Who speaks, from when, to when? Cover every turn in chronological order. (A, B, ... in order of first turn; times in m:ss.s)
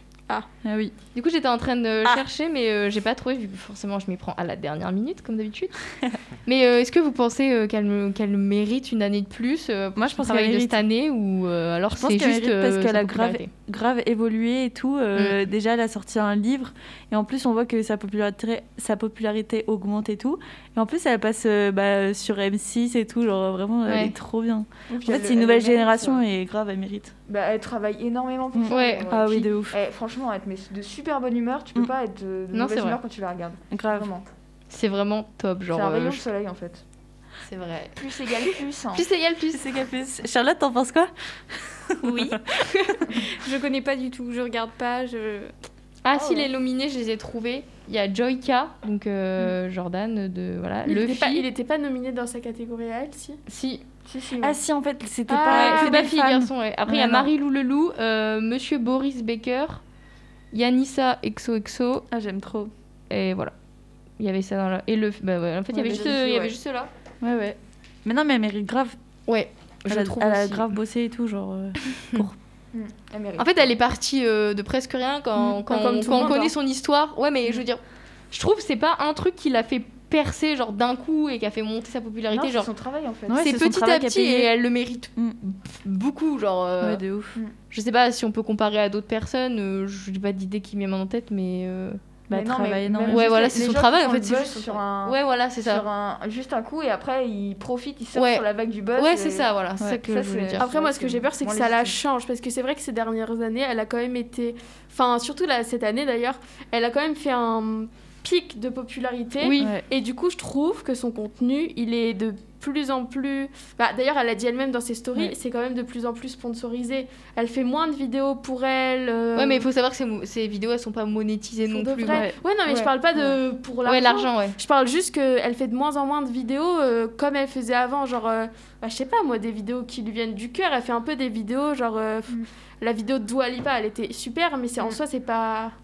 0:00.6-0:00.9 A
0:01.1-0:05.7 B
0:06.4-0:13.5 B
0:10.0-0:10.8 A
0:11.9-0:27.1 A
0:23.8-0:24.1 B
0:24.9-0:26.2 C
0:27.3-0:34.2 C
0:28.5-0:29.8 A
0:28.7-0:29.1 B
0:32.5-0:33.0 B
0:33.7-0:34.1 A
0:34.7-0:36.2 B
0:35.7-0:36.8 C
0:37.4-0:38.0 B
0:38.0-0:39.1 C
0:38.9-0:39.6 B
0:39.5-0:42.4 A
0:42.0-0:45.5 D
0:46.0-0:51.4 B
0:46.1-0:46.5 C
0:50.8-0:53.4 E
0:53.5-0:53.8 B
0:54.0-0:54.6 C
0:54.4-0:57.3 A
0:55.3-0:56.0 E
0:55.5-0:59.8 B
1:00.5-1:02.0 B
1:02.1-1:02.7 A
1:03.1-1:03.5 B
1:04.2-1:06.9 B
1:05.8-1:06.6 C
1:05.8-1:06.1 A
1:07.2-1:09.0 A
1:09.3-1:10.7 B
1:09.9-1:12.3 A
1:12.7-1:13.7 C
1:13.4-1:17.8 B
1:15.7-1:16.5 E
1:18.3-1:22.7 B
1:22.3-1:23.5 C
1:23.3-1:24.5 A
1:23.4-1:27.0 B
1:26.8-1:27.4 A
1:27.7-1:32.0 B
1:32.3-1:33.5 A
1:32.3-1:42.0 C
1:33.1-1:35.8 B
1:38.1-1:40.7 B
1:40.6-1:59.6 E
1:49.4-1:49.7 B
1:49.6-1:49.8 A
1:59.4-2:02.2 B
2:01.7-2:15.7 E
2:02.1-2:02.4 A
2:03.8-2:04.6 B